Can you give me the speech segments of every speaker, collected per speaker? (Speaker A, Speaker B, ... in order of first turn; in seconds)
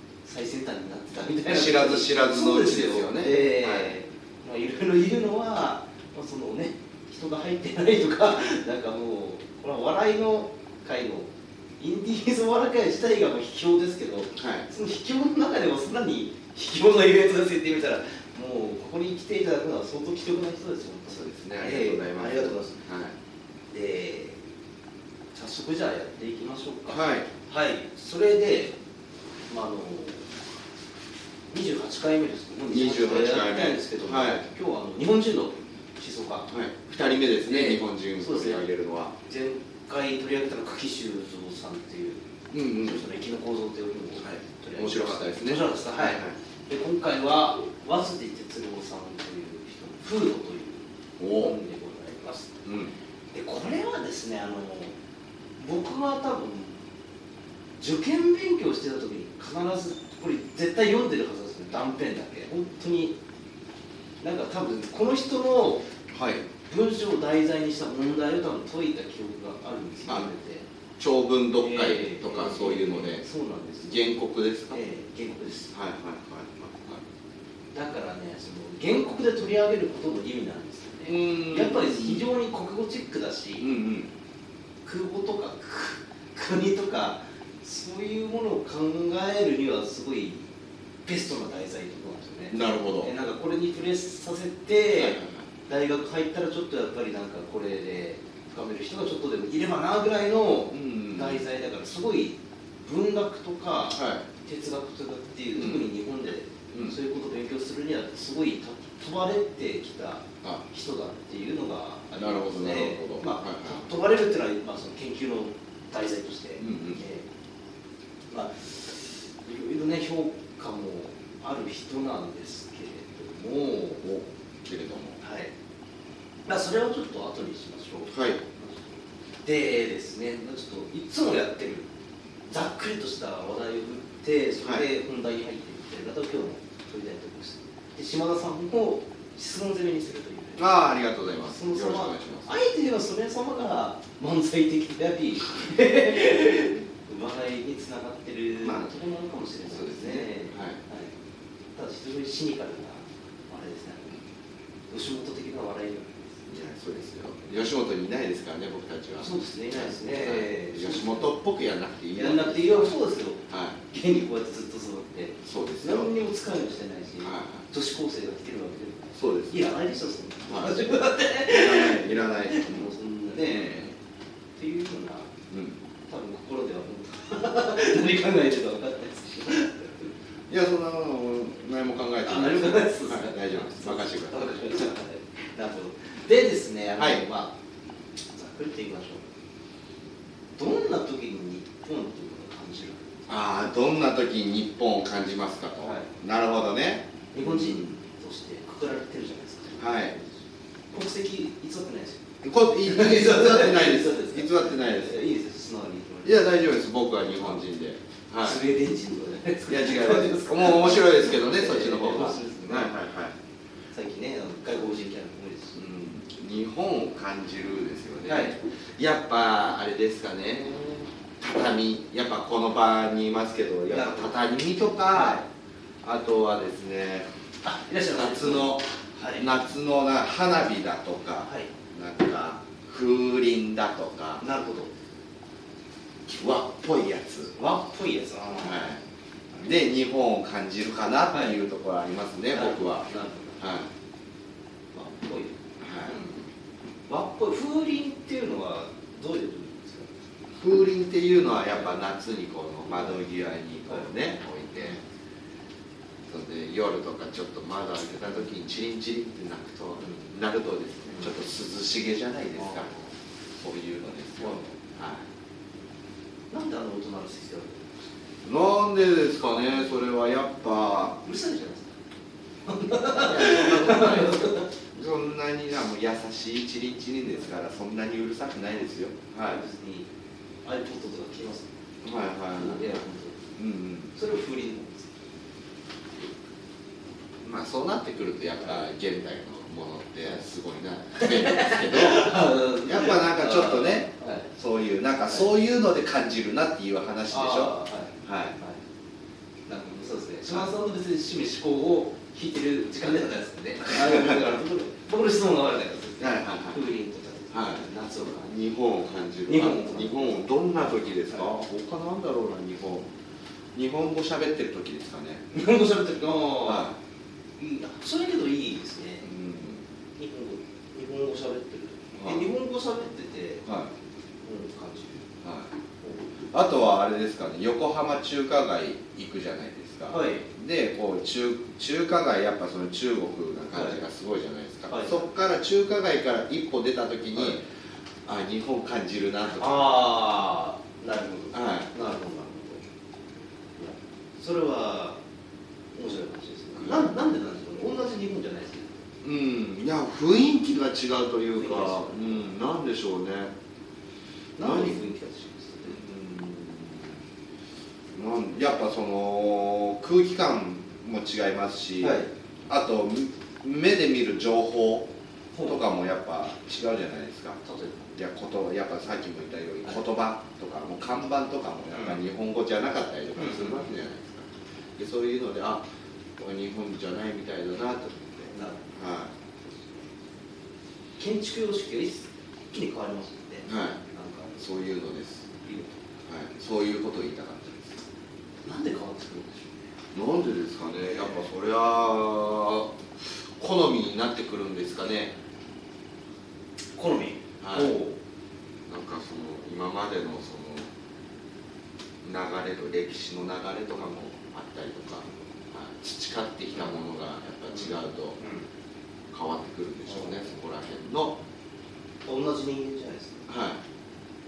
Speaker A: 0.2-22.8, 23.7-24.4, 25.3-28.8, 29.5-30.3, 31.5-36.5, 37.5-38.6, 39.2-52.6, 53.3-55.0, 55.6-56.8, 57.8-63.2, 64.2-65.9, 66.6-70.7, 71.5-74.0, 74.7-75.7, 77.7-83.7, 84.8-90.5, 91.0-117.2, 118.3-124.0, 125.2-125.5, 126.5-131.9, 132.5-140.7, 141.4-151.1, 151.7-154.2, 154.9-156.5, 159.1-161.3, 162.1-174.0, 174.6-175.3, 176.1-180.1, 182.2-187.5, 188.3-189.3, 190.6-193.2, 195.8-196.1, 197.3-200.4, 200.9-202.2, 202.8-206.5, 208.4-212.9, 213.9-215.8, 218.2-218.6, 223.9-224.3, 225.1-225.4, 227.6-229.5, 234.4-234.9, 237.5-238.9, 241.3-241.6, 242.5-243.8, 244.9-246.3, 247.1-250.1, 262.6-263.1, 264.4-264.7, 266.5-268.2, 271.2-272.0, 272.6-274.9, 279.4-280.1, 280.6-281.7, 282.5-283.5, 284.1-285.1, 291.1-294.5, 297.3-298.8, 299.7-308.5, 309.5-310.4, 315.5-316.9, 317.6-319.3, 320.1-323.6, 324.4-325.3, 326.0-326.3, 330.1-330.4, 333.7-334.0, 334.9-335.3, 339.5-342.8, 343.8-345.2, 345.9-349.0, 351.5-352.5, 354.6-356.0, 362.0-362.3, 365.5-365.8, 367.6-368.1, 371.9-372.2, 373.4-373.9, 378.5-378.8, 379.6-380.0, 381.2-384.6, 385.6-386.2, 388.6-389.9, 391.0-391.4, 396.9-398.1, 406.7-407.0, 407.7-408.6, 410.1-410.5, 412.2-413.5
Speaker B: 1.5-3.9, 14.3-14.7, 21.1-23.1, 26.9-27.3, 32.7-34.4, 36.5-39.1, 42.5-43.0, 44.2-46.4, 51.2-51.5, 52.6-52.9, 66.1-66.5, 70.1-70.3, 71.0-73.2, 73.8-74.8, 75.7-77.0, 81.0-82.3, 83.6-84.1, 92.5-93.1, 94.9-95.5, 100.7-101.4, 103.9-104.2, 105.5-105.9, 112.2-113.9, 116.6-117.0, 124.0-125.2, 128.1-128.4, 140.6-142.5, 148.6-148.9, 149.7-150.8, 156.5-162.9, 163.5-163.8, 165.4-166.1, 167.2-167.7, 169.1-169.6, 170.4-172.9, 173.4-173.9, 175.5-175.8, 180.5-184.8, 187.0-187.2, 193.3-197.9, 199.8-200.1, 202.4-205.2, 206.2-208.6, 209.7-213.3, 215.8-225.4, 226.0-227.3, 228.1-234.4, 236.2-237.5, 238.6-239.0, 239.5-243.1, 243.6-243.9, 245.8-246.3, 250.5-255.0, 256.3-262.9, 263.6-265.2, 268.4-271.2, 273.0-279.6, 282.0-283.0, 283.6-284.1, 287.4-298.6, 304.0-304.4, 306.2-306.8, 307.5-307.9, 308.4-313.1, 313.7-315.5, 316.6-317.0, 319.2-319.8, 322.1-322.5, 323.6-323.9, 325.4-325.7, 326.4-337.6, 338.2-339.9, 341.5-341.9, 346.8-347.1, 349.2-353.5, 354.6-355.0, 355.9-357.2, 358.1-365.1, 365.6-367.6, 368.1-379.3, 383.6-384.0, 384.6-385.5, 386.2-388.0, 390.1-395.3, 397.6-398.0, 398.9-400.9, 402.2-408.4, 409.3-411.4, 413.5-413.8